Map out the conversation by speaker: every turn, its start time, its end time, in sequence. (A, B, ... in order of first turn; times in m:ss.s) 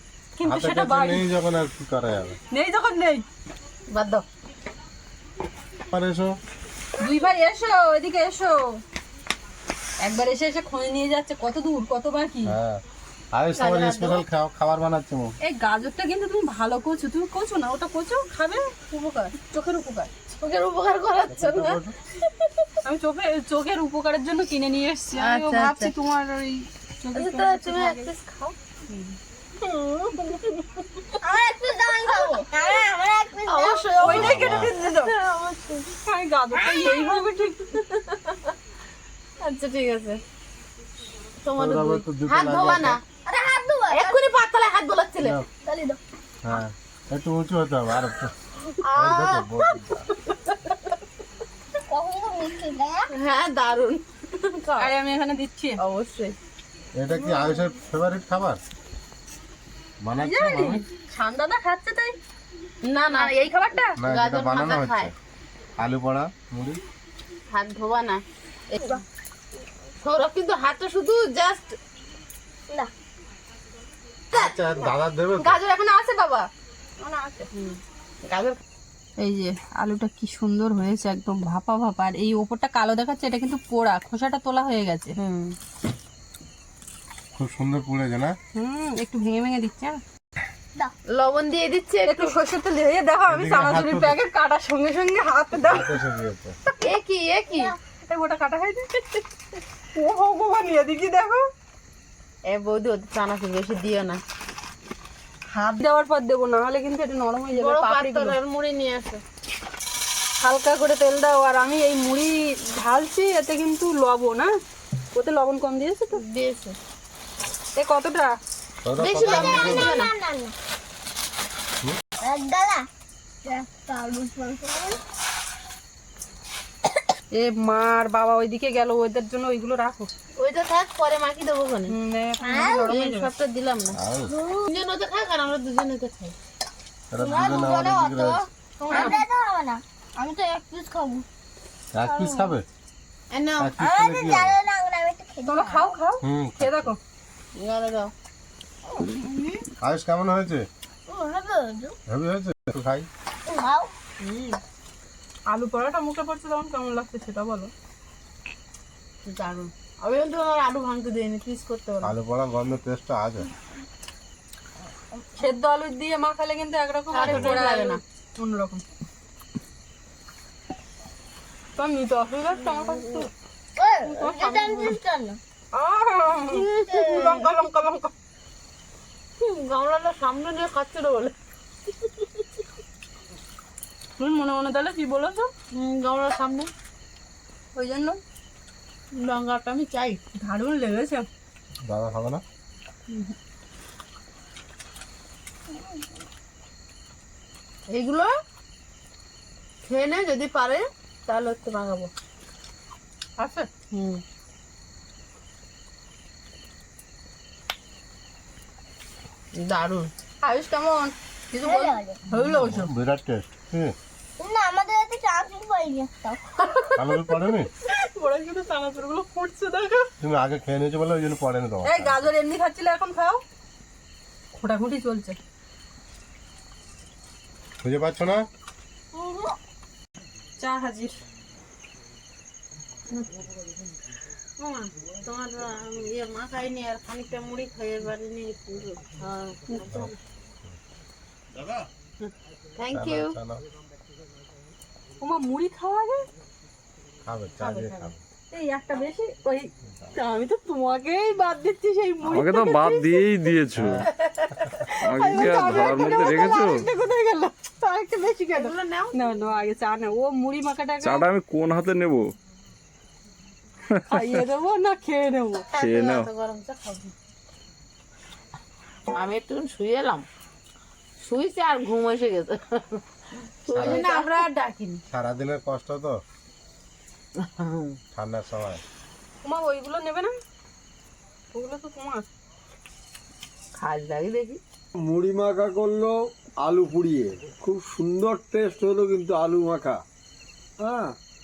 0:00.4-0:01.2 A
0:00.4-0:02.4 B
0:02.5-0:03.2 A
0:03.9-0:04.2 C
0:05.9-0:06.3 B
0:07.0-0:08.8 A
0:10.0-0:12.5 A
0:12.4-0:12.8 B
0:13.3-0:15.3 B
0:13.6-0:14.2 C
0:15.4-0:20.1 A
0:20.4-0:21.8 C
0:21.3-0:21.9 B
0:22.8-0:28.1 A
0:25.1-0:25.9 C
0:27.1-0:28.5 C
0:29.6-0:30.7 C
0:31.2-0:33.9 D
0:33.5-0:35.9 C
0:33.9-0:35.1 A
0:34.0-0:34.7 B
0:36.0-0:37.8 A
0:36.6-0:37.2 D
0:39.4-0:40.2 C
0:41.4-0:43.0 C
0:41.6-0:43.0 B
0:43.2-0:44.2 D
0:43.9-0:45.4 C
0:45.6-0:46.0 D
0:46.4-0:48.3 B
0:48.8-0:49.8 C
0:49.0-0:50.0 B
0:50.3-0:50.7 C
0:51.9-0:53.1 D
0:53.1-0:54.9 C
0:54.8-0:55.8 A
0:55.8-0:56.3 C
0:57.0-0:58.6 B
1:00.0-1:00.8 B
1:00.2-1:02.2 A
1:02.8-1:05.1 C
1:03.1-1:03.9 A
1:04.0-1:05.1 B
1:05.8-1:06.8 B
1:07.5-1:08.9 C
1:10.0-1:11.8 C
1:14.3-1:15.6 B
1:15.4-1:16.5 A
1:17.0-1:17.5 A
1:17.5-1:18.6 C
1:19.2-1:25.1 A
1:25.2-1:25.6 C
1:27.4-1:28.3 B
1:28.6-1:30.0 A
1:31.1-1:32.3 C
1:32.0-1:36.0 A
1:33.3-1:34.2 B
1:35.6-1:36.5 B
1:36.8-1:37.7 C
1:37.5-1:37.8 D
1:38.1-1:39.2 A
1:39.9-1:41.4 A
1:42.5-1:44.2 C
1:45.5-1:48.4 A
1:47.5-1:49.2 C
1:50.4-1:54.5 A
1:55.1-1:56.2 A
1:56.1-1:56.8 C
1:57.8-1:58.3 A
1:58.8-2:00.0 B
1:59.0-2:00.1 C
1:59.2-2:00.5 D
2:02.2-2:02.8 D
2:03.4-2:05.0 D
2:07.3-2:10.1 A
2:10.4-2:11.9 C
2:11.9-2:13.3 A
2:12.4-2:12.9 D
2:12.7-2:14.0 C
2:14.0-2:14.3 B
2:14.3-2:14.6 D
2:14.6-2:16.3 C
2:17.1-2:18.4 B
2:17.2-2:21.2 D
2:18.8-2:19.2 A
2:18.9-2:19.2 C
2:21.9-2:22.6 B
2:22.0-2:22.6 D
2:23.3-2:23.7 C
2:23.6-2:24.6 B
2:23.8-2:25.9 D
2:25.4-2:27.0 A
2:26.2-2:26.9 B
2:27.6-2:28.1 C
2:28.9-2:29.6 D
2:29.8-2:30.6 B
2:31.1-2:32.0 D
2:32.1-2:33.1 B
2:33.4-2:33.9 D
2:34.2-2:34.6 C
2:35.5-2:37.7 A
2:39.2-2:42.1 C
2:42.0-2:43.5 B
2:45.4-2:48.8 A
2:47.1-2:48.0 C
2:51.8-2:53.2 A
2:52.5-2:53.2 C
2:53.8-2:55.4 D
2:54.0-2:55.0 A
2:55.7-2:58.1 A
2:56.8-2:57.4 D
2:56.8-2:57.3 C
2:59.4-3:01.3 C
3:04.2-3:05.5 A
3:05.7-3:06.7 C
3:07.7-3:08.2 A
3:09.1-3:10.2 C
3:10.4-3:11.2 A
3:11.8-3:12.4 B
3:17.9-3:18.3 C
3:19.8-3:22.1 C
3:23.4-3:24.2 C
3:29.5-3:30.1 C
3:30.4-3:31.1 A
3:31.6-3:32.2 D
3:31.6-3:32.9 A
3:31.7-3:32.8 C
3:32.7-3:33.9 B
3:34.4-3:36.4 D
3:36.6-3:37.3 C
3:37.0-3:37.7 B
3:37.8-3:40.1 A
3:40.2-3:42.3 B
3:41.8-3:43.4 A
3:44.5-3:45.4 A
3:47.8-3:48.4 B
3:49.2-3:49.5 C
3:50.6-3:51.1 A
3:54.6-4:00.1 C
3:59.7-4:00.0 A
4:02.2-4:03.4 C
4:02.9-4:03.6 B
4:05.2-4:06.2 A
4:07.2-4:08.2 B
4:07.6-4:08.1 C
4:08.5-4:13.4 A
4:12.2-4:14.0 E
4:13.8-4:14.1 B
4:14.9-4:21.2 A
4:15.0-4:16.8 E
4:18.5-4:19.3 C
4:21.0-4:22.3 E
4:23.9-4:24.2 E
4:24.1-4:25.6 A
4:25.7-4:27.1 C
4:25.8-4:26.3 E
4:29.1-4:30.2 C
4:31.2-4:33.0 C
4:33.6-4:35.0 C
4:33.7-4:34.1 B
4:33.8-4:34.2 A
4:35.1-4:36.2 B
4:37.4-4:38.0 C
4:38.1-4:38.8 B
4:39.4-4:40.3 A
4:41.5-4:42.3 A
4:43.8-4:44.6 C
4:45.0-4:50.0 F
4:50.8-4:51.1 F